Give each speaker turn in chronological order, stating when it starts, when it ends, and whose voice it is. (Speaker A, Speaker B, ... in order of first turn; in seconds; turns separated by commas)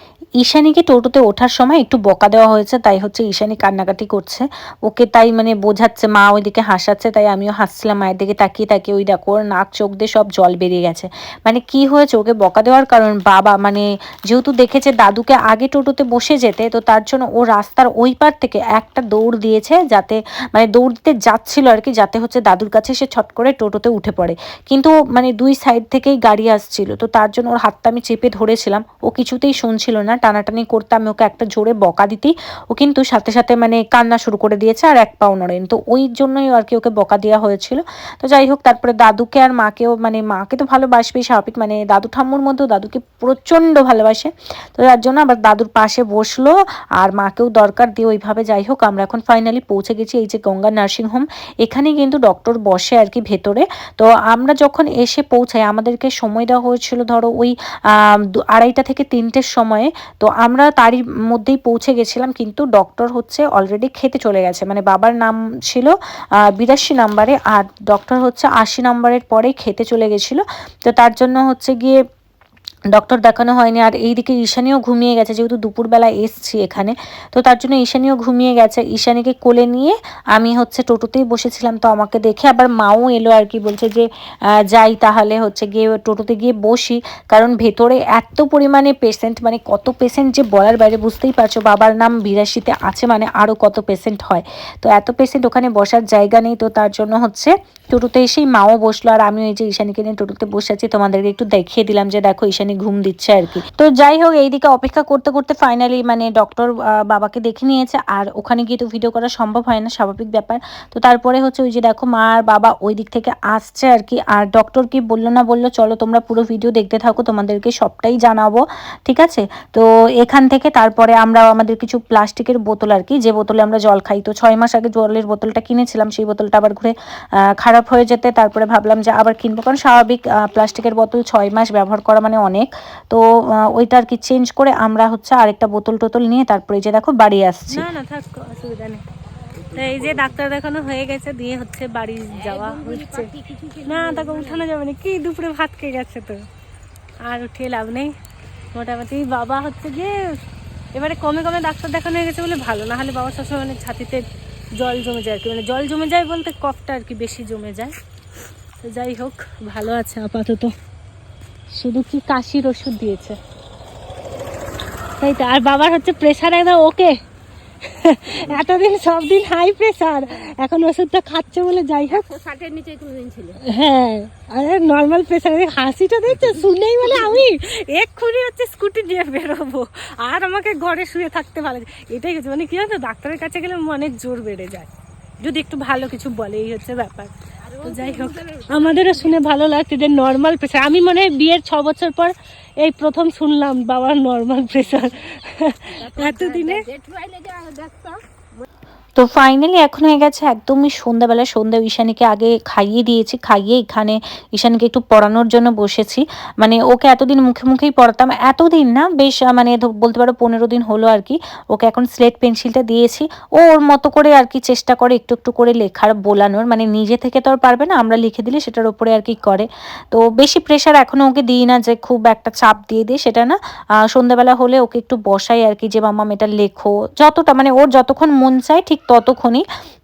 Speaker A: 0.4-57.5, Speaker A: 58.4-65.9, Speaker A: 66.6-72.0, Speaker A: 72.9-84.1, Speaker A: 84.7-126.9, Speaker A: 127.6-137.8, Speaker B: 137.7-139.0, Speaker B: 139.7-143.3, Speaker C: 142.3-144.7, Speaker B: 143.8-146.4, Speaker B: 147.3-148.1, Speaker B: 148.7-150.2, Speaker B: 150.9-154.2, Speaker B: 154.8-157.9, Speaker B: 158.8-160.7, Speaker B: 161.7-163.4, Speaker B: 165.2-167.1, Speaker B: 167.8-172.3, Speaker C: 172.1-173.6, Speaker B: 173.7-184.9, Speaker C: 176.4-177.4, Speaker B: 185.4-196.8, Speaker C: 187.7-189.2, Speaker C: 195.9-198.2, Speaker A: 199.2-223.6, Speaker A: 224.1-229.6